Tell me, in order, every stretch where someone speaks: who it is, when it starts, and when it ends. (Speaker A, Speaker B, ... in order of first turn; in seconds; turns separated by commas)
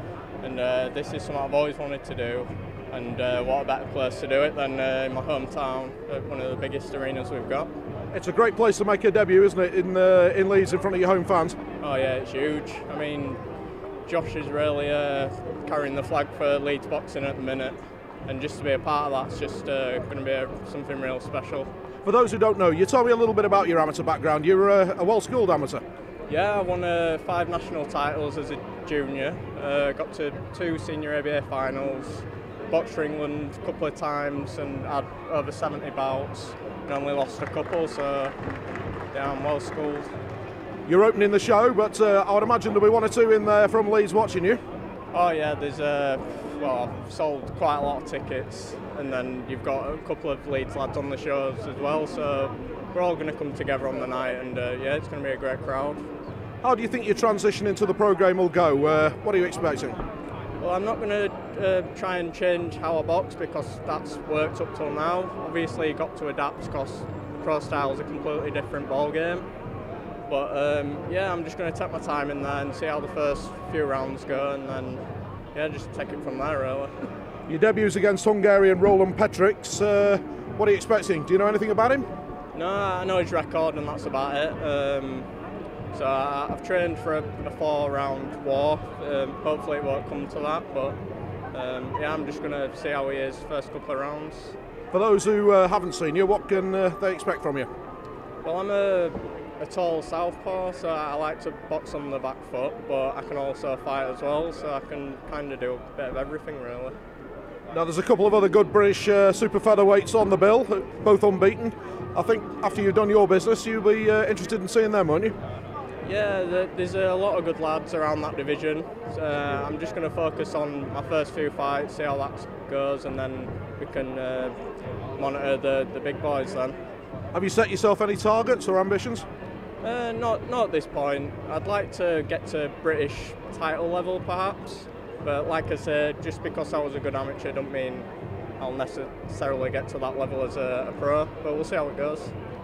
Speaker A: 0.4-7.7, Speaker B: 8.1-11.6, Speaker A: 11.8-13.4, Speaker A: 14.1-21.7, Speaker B: 22.1-25.8, Speaker A: 26.3-38.3, Speaker A: 39.1-40.1, Speaker B: 40.9-44.6, Speaker A: 45.1-56.0, Speaker B: 56.6-60.0, Speaker A: 60.6-69.5, Speaker A: 70.3-75.0, Speaker A: 75.5-77.1, Speaker B: 77.5-82.1, Speaker A: 82.5-85.3, Speaker A: 85.9-91.0, Speaker A: 91.5-94.6, Speaker B: 94.9-97.7, Speaker A: 98.5-107.0, Speaker B: 107.7-115.3, Speaker A: 116.0-124.5, Speaker A: 125.2-126.8, Speaker B: 127.3-129.2, Speaker A: 129.8-138.1, Speaker A: 138.6-142.3